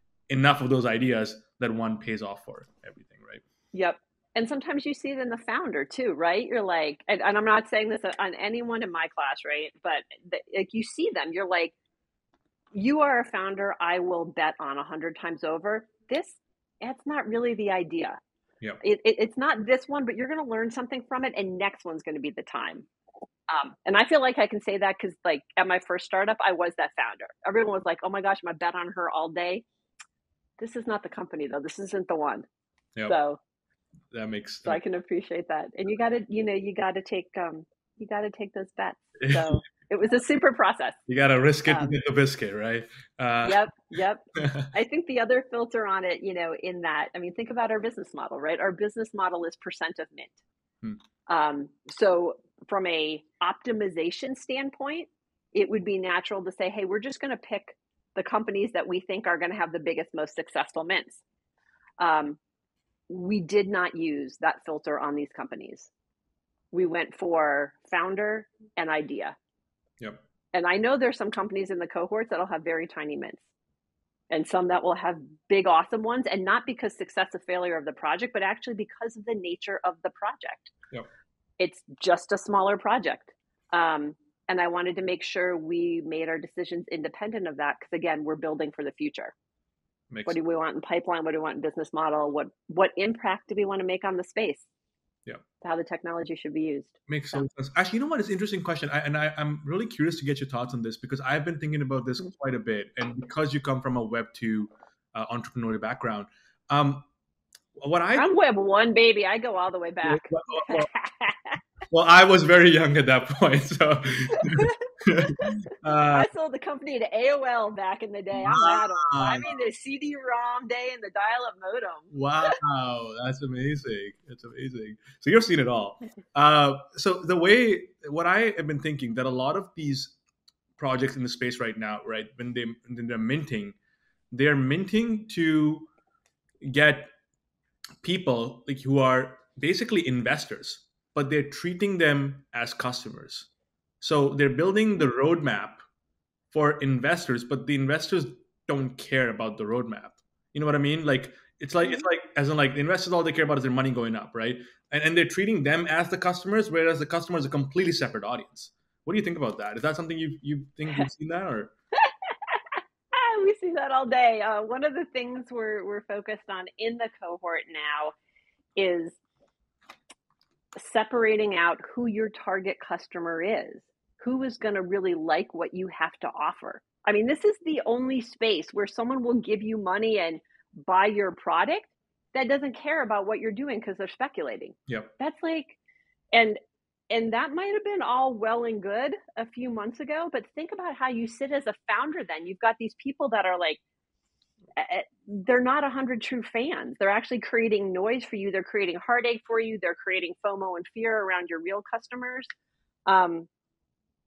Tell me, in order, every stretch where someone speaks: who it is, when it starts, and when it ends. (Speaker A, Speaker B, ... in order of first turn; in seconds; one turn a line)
Speaker A: 0.3-3.4
Speaker B: 3.7-11.7
Speaker B: 12.7-18.2
Speaker B: 18.8-22.9
Speaker B: 23.5-29.6
Speaker B: 30.6-32.5
Speaker B: 33.0-33.4
Speaker A: 34.1-34.8
Speaker B: 34.6-41.0
Speaker A: 39.2-39.5
Speaker A: 41.1-43.6
Speaker B: 41.7-41.9
Speaker B: 43.4-50.4
Speaker A: 44.4-44.7
Speaker B: 51.3-61.2
Speaker B: 62.0-62.4
Speaker B: 63.1-65.9
Speaker B: 66.7-69.4
Speaker B: 70.5-73.4
Speaker B: 74.3-80.7
Speaker B: 81.6-89.3
Speaker A: 90.1-90.4
Speaker B: 90.2-94.6
Speaker B: 95.6-97.4
Speaker A: 97.1-107.0
Speaker A: 107.8-108.3
Speaker B: 108.2-111.6
Speaker A: 110.0-110.9
Speaker A: 111.9-116.3
Speaker B: 114.4-114.8
Speaker B: 116.1-122.5
Speaker A: 118.4-119.6
Speaker A: 122.1-130.1
Speaker A: 130.8-133.7
Speaker A: 134.3-135.9
Speaker A: 136.6-137.1
Speaker A: 138.0-143.5
Speaker A: 144.0-145.8
Speaker A: 146.5-161.7
Speaker B: 162.1-162.6
Speaker B: 163.1-168.1
Speaker B: 168.8-169.2
Speaker B: 170.8-185.8
Speaker A: 184.9-185.1
Speaker B: 186.3-186.6
Speaker B: 187.1-193.8
Speaker B: 194.8-202.5
Speaker B: 203.1-203.5